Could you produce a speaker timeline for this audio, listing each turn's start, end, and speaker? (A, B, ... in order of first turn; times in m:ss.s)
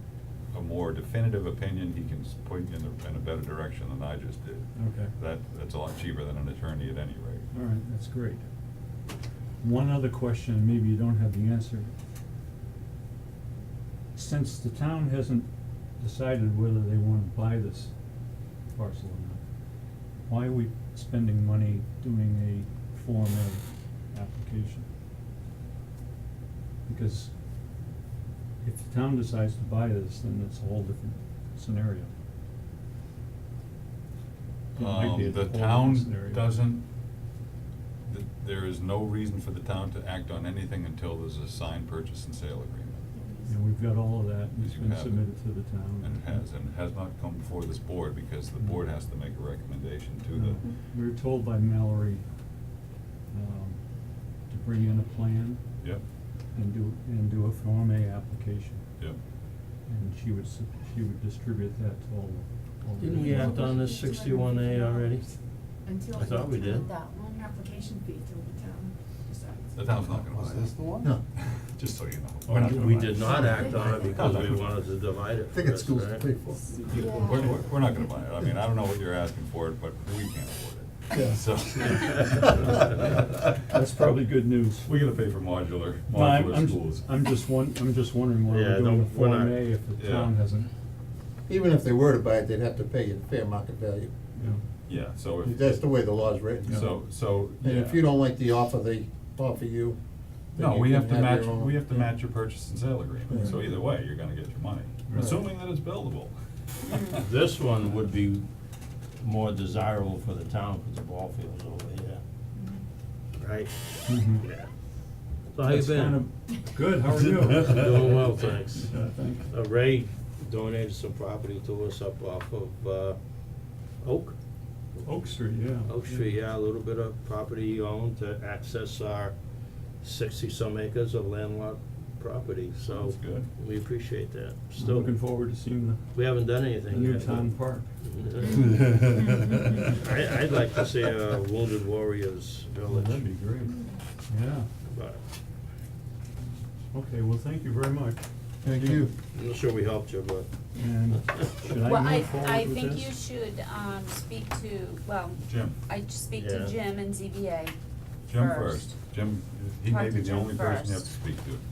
0:00.5-0:07.5 A
0:04.7-0:05.1 B
0:07.5-0:08.4 B
0:09.6-0:11.9 B
0:14.1-0:15.5 B
0:16.0-0:17.9 B
0:18.7-0:19.4 B
0:20.2-0:24.9 B
0:26.9-0:27.3 B
0:28.6-0:32.1 B
0:34.8-0:36.4 B
0:34.8-0:36.8 A
0:38.1-0:43.0 A
0:43.1-0:43.5 C
0:43.5-0:46.4 B
0:44.6-0:45.3 A
0:46.0-0:50.6 A
0:50.3-0:52.2 B
0:53.3-0:53.8 B
0:54.5-0:55.6 B
0:56.5-0:58.8 B
0:59.9-1:03.6 B
1:03.0-1:05.2 D
1:03.1-1:05.3 C
1:05.8-1:10.1 C
1:06.1-1:06.9 D
1:06.7-1:07.4 E
1:09.7-1:10.8 A
1:10.3-1:11.2 F
1:11.3-1:14.7 A
1:12.4-1:14.1 B
1:12.6-1:16.2 D
1:15.5-1:16.9 F
1:16.9-1:23.1 A
1:16.9-1:17.4 E
1:21.1-1:21.4 B
1:22.0-1:22.6 F
1:23.6-1:24.9 B
1:24.8-1:27.0 A
1:26.1-1:30.7 B
1:28.5-1:29.6 D
1:30.0-1:30.3 A
1:31.5-1:34.1 F
1:34.4-1:34.6 B
1:34.9-1:35.8 A
1:35.4-1:37.0 F
1:36.6-1:37.8 A
1:37.6-1:40.0 F
1:37.6-1:38.0 D
1:40.5-1:42.1 F
1:40.6-1:46.3 A
1:43.3-1:43.6 F
1:43.3-1:43.7 B
1:45.1-1:45.5 B
1:47.2-1:48.4 D
1:49.2-1:52.2 D
1:53.4-1:54.7 D
1:54.1-1:54.4 B
1:55.5-1:56.2 D
1:55.6-1:58.2 B
1:57.5-2:03.2 D
1:58.8-1:59.5 B
2:04.0-2:04.4 D
2:05.0-2:06.2 B
2:05.8-2:09.3 D
2:10.0-2:15.1 D
2:12.8-2:13.5 A
2:14.8-2:16.0 B
2:16.1-2:19.3 D
2:16.9-2:17.9 B
2:19.9-2:23.3 D
2:22.9-2:23.8 B
2:24.3-2:24.7 B
2:24.9-2:25.2 D
2:26.9-2:29.1 B
2:28.6-2:29.1 F
2:29.3-2:30.5 D
2:30.8-2:33.1 B
2:31.8-2:37.7 E
2:35.4-2:35.8 A
2:36.3-2:36.8 D
2:38.3-2:41.6 A
2:38.3-2:39.0 E
2:39.8-2:41.1 E